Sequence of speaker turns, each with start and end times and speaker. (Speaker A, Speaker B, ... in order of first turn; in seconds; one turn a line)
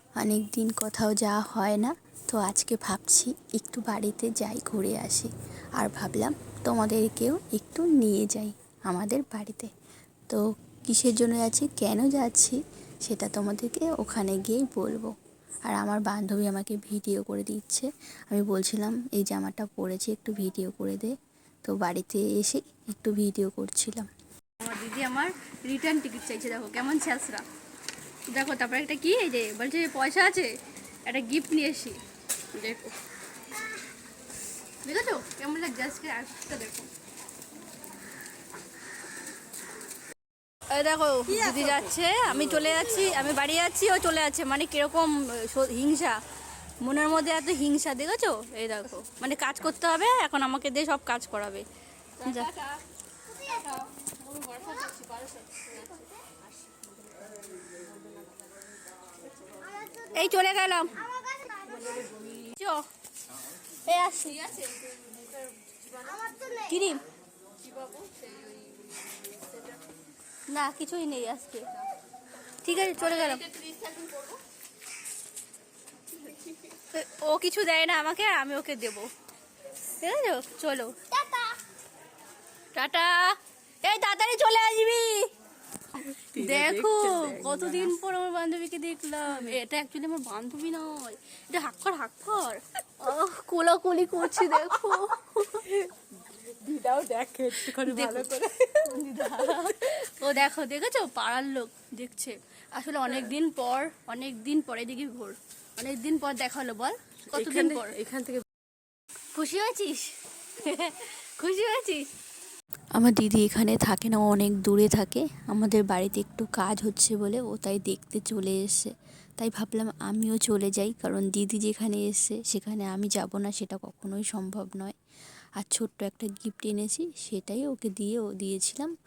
Speaker A: 0.2-9.7
Speaker A: 10.3-15.1
Speaker A: 15.6-21.1
Speaker A: 21.6-24.1
Speaker B: 24.6-27.4
Speaker B: 28.3-30.5
Speaker B: 31.1-32.0
Speaker B: 32.5-32.9
Speaker B: 34.8-36.9
Speaker B: 40.7-46.2
Speaker B: 46.8-51.6
Speaker B: 52.2-52.8
Speaker B: 53.4-56.0
Speaker B: 60.0-62.9
Speaker B: 63.8-64.8
Speaker B: 66.2-67.0
Speaker B: 70.5-71.7
Speaker B: 72.6-74.2
Speaker B: 76.3-79.1
Speaker B: 80.0-81.5
Speaker B: 82.7-85.3
Speaker C: 86.0-87.9
Speaker B: 86.3-95.7
Speaker C: 95.9-99.1
Speaker B: 97.7-98.3
Speaker B: 98.8-108.0
Speaker C: 107.3-108.4
Speaker B: 109.3-112.1
Speaker A: 113.0-124.9
Speaker A: 125.6-128.9